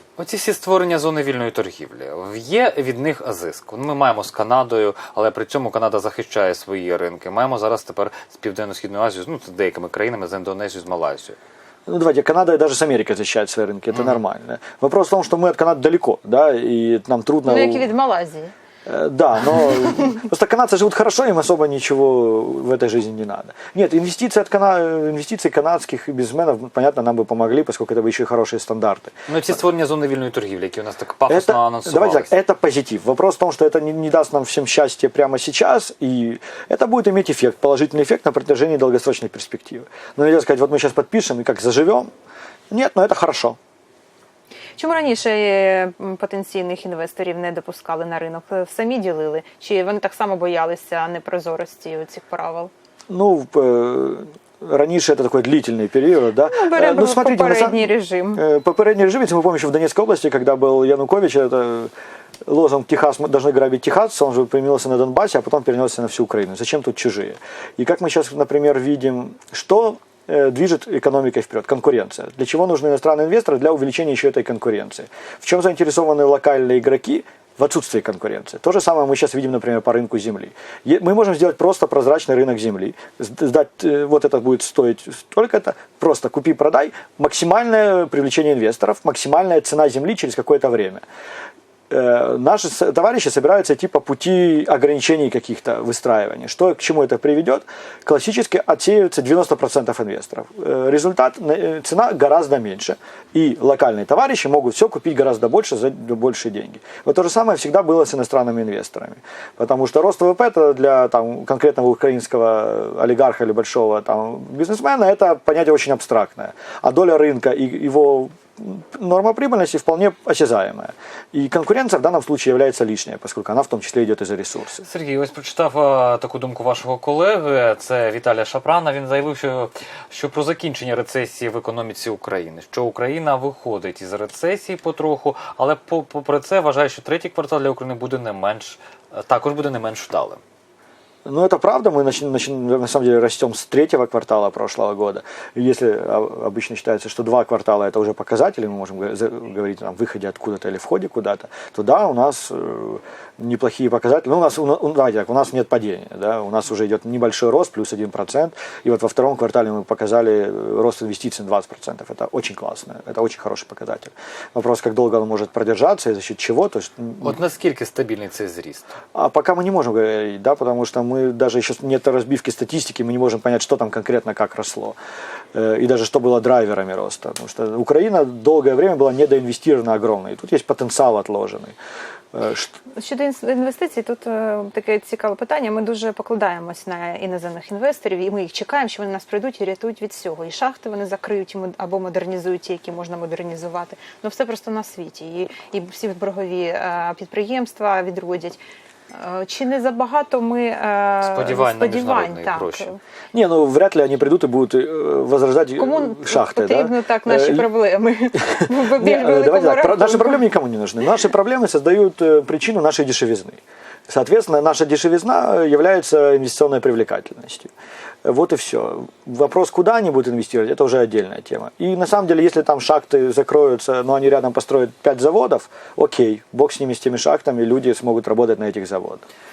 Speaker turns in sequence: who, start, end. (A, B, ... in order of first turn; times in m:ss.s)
0:00.2-0:11.4 A
0:11.9-0:17.9 B
0:17.4-0:18.5 C
0:18.8-0:29.3 B
0:29.3-0:32.3 A
0:31.3-0:42.1 B
0:42.7-0:43.6 B
0:44.8-0:52.7 C
0:53.1-1:01.9 B
0:56.5-0:58.4 C
1:02.4-1:31.0 B
1:31.9-2:04.8 B
2:04.8-2:20.4 A
2:21.2-2:47.4 B
2:47.2-2:48.9 A
2:49.1-2:55.0 B
2:55.5-3:01.7 B
3:02.3-3:02.7 B
3:03.0-3:18.6 C
3:19.1-3:23.0 C
3:21.2-3:22.9 A
3:23.3-3:27.7 B
3:25.8-3:30.5 C
3:28.5-3:37.7 B
3:38.2-3:49.2 B